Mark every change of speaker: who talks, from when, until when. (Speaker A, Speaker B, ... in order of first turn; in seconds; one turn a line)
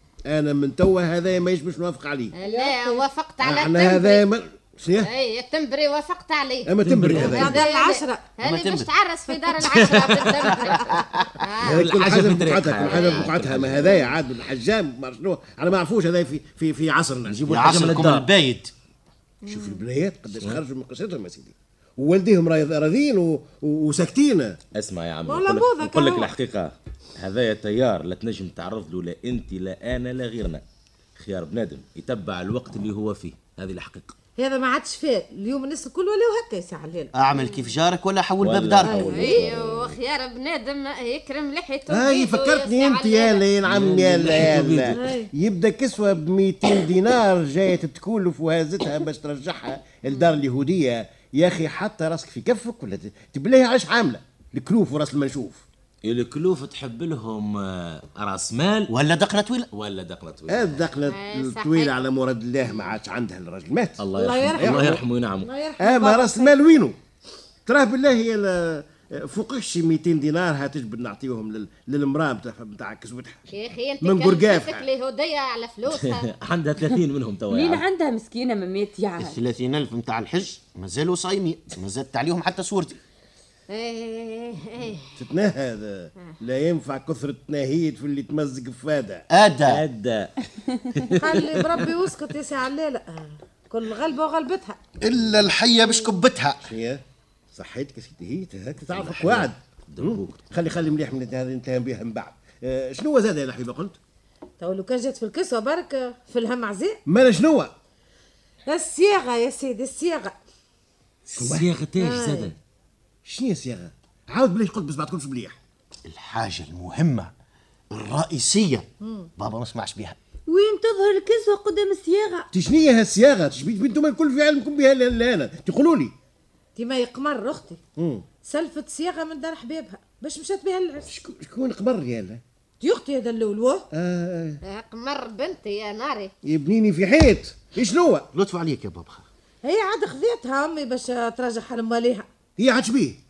Speaker A: 0.3-2.3
Speaker B: 2.3-4.2
Speaker C: 2.4-3.0
Speaker A: 3.4-5.1
Speaker B: 5.0-11.9
Speaker A: 6.7-7.6
Speaker D: 6.8-7.6
Speaker C: 7.2-8.3
Speaker E: 8.4-8.9
Speaker D: 9.6-10.8
Speaker E: 10.7-11.4
Speaker A: 11.5-17.9
Speaker D: 11.6-14.0
Speaker E: 12.9-13.9
Speaker B: 12.9-13.2
Speaker D: 17.3-18.3
Speaker E: 17.4-18.7
Speaker C: 19.5-19.8
Speaker A: 19.5-24.6
Speaker D: 24.7-30.6
Speaker C: 25.3-26.3
Speaker D: 31.2-34.1
Speaker C: 34.4-37.1
Speaker E: 37.1-39.4
Speaker B: 37.4-37.7
Speaker D: 38.4-40.0
Speaker C: 38.9-39.4
Speaker B: 39.1-43.5
Speaker A: 41.9-55.6
Speaker D: 43.6-45.0
Speaker C: 44.9-45.3
Speaker D: 56.0-58.9
Speaker E: 58.9-59.7
Speaker D: 59.7-60.9
Speaker A: 60.5-65.0
Speaker B: 61.1-62.0
Speaker D: 64.0-65.5
Speaker C: 64.2-66.7
Speaker A: 65.8-67.0
Speaker A: 67.7-73.5
Speaker B: 73.5-76.3
Speaker A: 74.0-74.9
Speaker D: 75.9-77.8
Speaker F: 77.5-79.4
Speaker E: 79.2-83.0
Speaker B: 83.7-85.1
Speaker A: 85.2-89.3
Speaker E: 89.3-89.8
Speaker D: 89.7-91.9
Speaker C: 91.2-94.8
Speaker E: 95.0-96.7
Speaker A: 96.6-97.0
Speaker A: 97.5-104.0
Speaker D: 98.9-100.4
Speaker C: 104.6-107.0
Speaker A: 107.1-107.7
Speaker C: 108.7-110.4
Speaker D: 111.3-112.5
Speaker A: 111.3-111.7
Speaker C: 112.0-112.5
Speaker A: 113.2-115.6
Speaker E: 116.0-117.3
Speaker E: 117.9-120.2
Speaker C: 119.0-119.3
Speaker F: 120.5-122.5
Speaker A: 122.5-126.1
Speaker C: 126.8-127.8
Speaker A: 128.0-128.2
Speaker C: 128.4-131.2
Speaker A: 131.1-132.4
Speaker C: 132.8-133.9
Speaker A: 133.9-134.6
Speaker B: 134.6-136.3
Speaker A: 136.4-138.3
Speaker E: 138.3-139.2
Speaker C: 139.6-142.3
Speaker A: 142.6-143.2